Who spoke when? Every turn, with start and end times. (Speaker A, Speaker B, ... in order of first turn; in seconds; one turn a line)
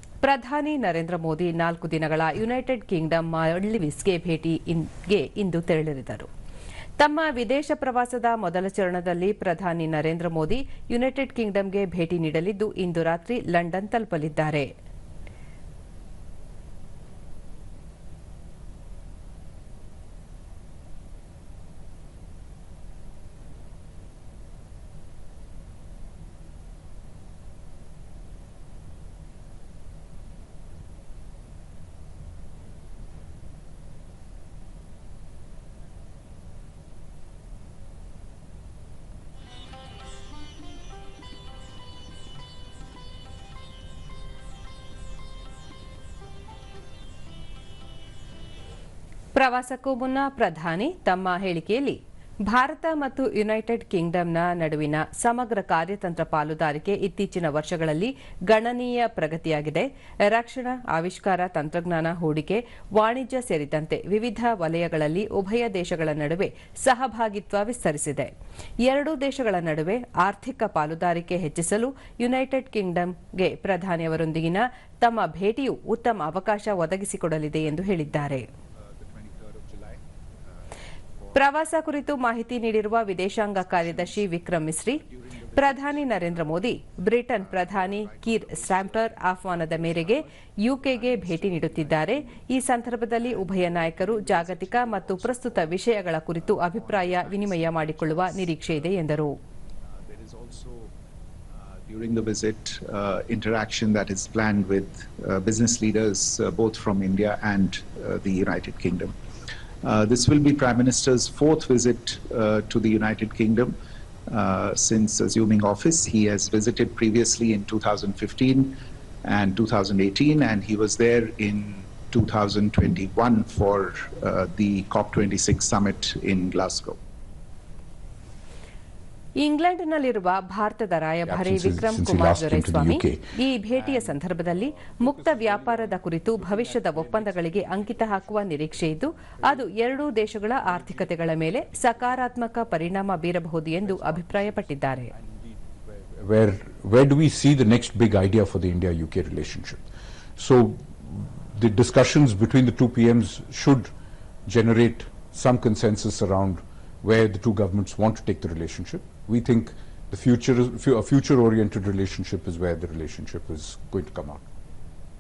Speaker A: 0.2-6.3
Speaker A: 7.0-14.7
Speaker A: 49.4-68.3
Speaker A: 68.8-78.5
Speaker B: 77.6-81.5
Speaker A: 81.3-85.0
Speaker B: 83.6-84.3
Speaker B: 84.9-86.8
Speaker A: 85.6-99.4
Speaker B: 87.3-92.5
Speaker B: 93.0-98.9
Speaker B: 99.9-100.9
Speaker B: 101.5-109.2
Speaker B: 109.8-113.8
Speaker B: 114.3-118.7
Speaker B: 119.2-127.0
Speaker A: 129.4-145.1
Speaker C: 131.3-139.8
Speaker C: 140.5-142.3
Speaker C: 143.8-149.8
Speaker C: 150.4-153.9
Speaker C: 154.5-164.5